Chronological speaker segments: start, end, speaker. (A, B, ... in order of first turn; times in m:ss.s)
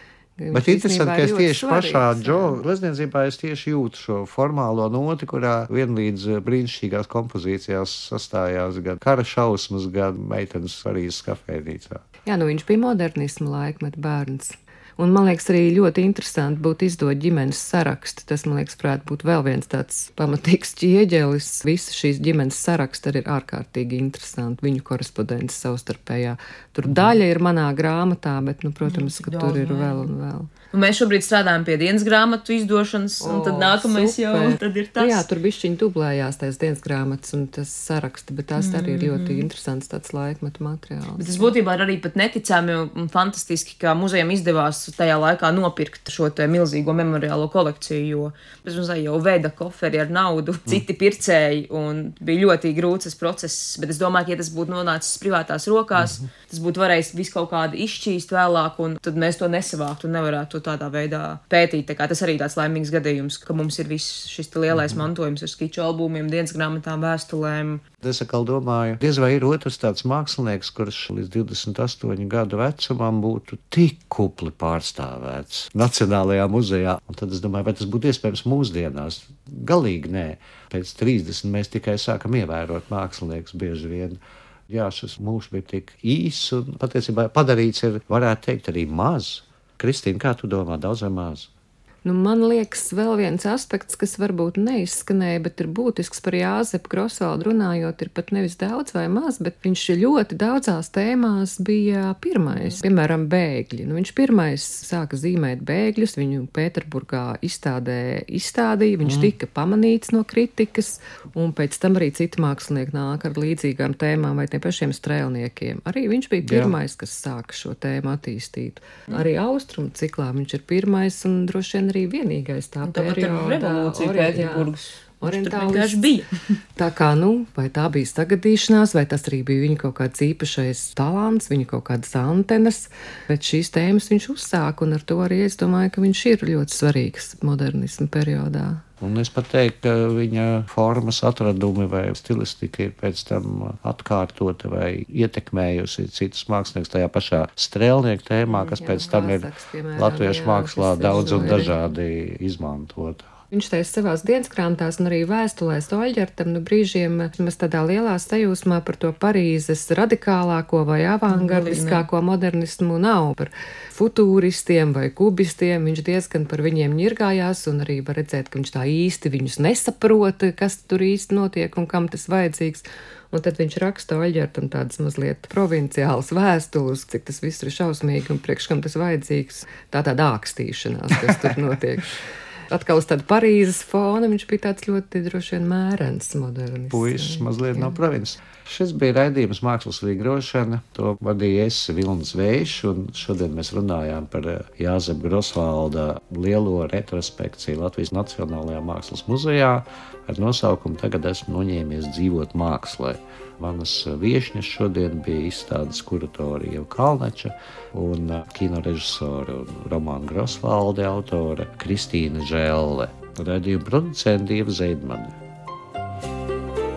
0:00.4-0:02.6 A
0:00.5-0:12.0 B
0:12.3-0:30.5 A
0:26.8-0:27.1 B
0:28.8-0:30.1 C
0:30.7-0:35.3 C
0:33.2-0:41.5 A
0:38.6-0:39.5 C
0:41.2-1:07.8 C
1:04.7-1:05.0 B
1:08.0-1:24.2 B
1:24.7-1:31.5 B
1:32.0-2:04.7 A
1:49.0-1:49.3 B
1:56.4-1:56.8 B
2:02.8-2:06.3 C
2:05.2-2:06.1 A
2:06.8-2:18.8 A
2:19.0-2:33.3 B
2:28.8-2:31.7 A
2:33.5-3:08.0 A
2:41.3-2:42.1 C
3:06.9-3:35.3 B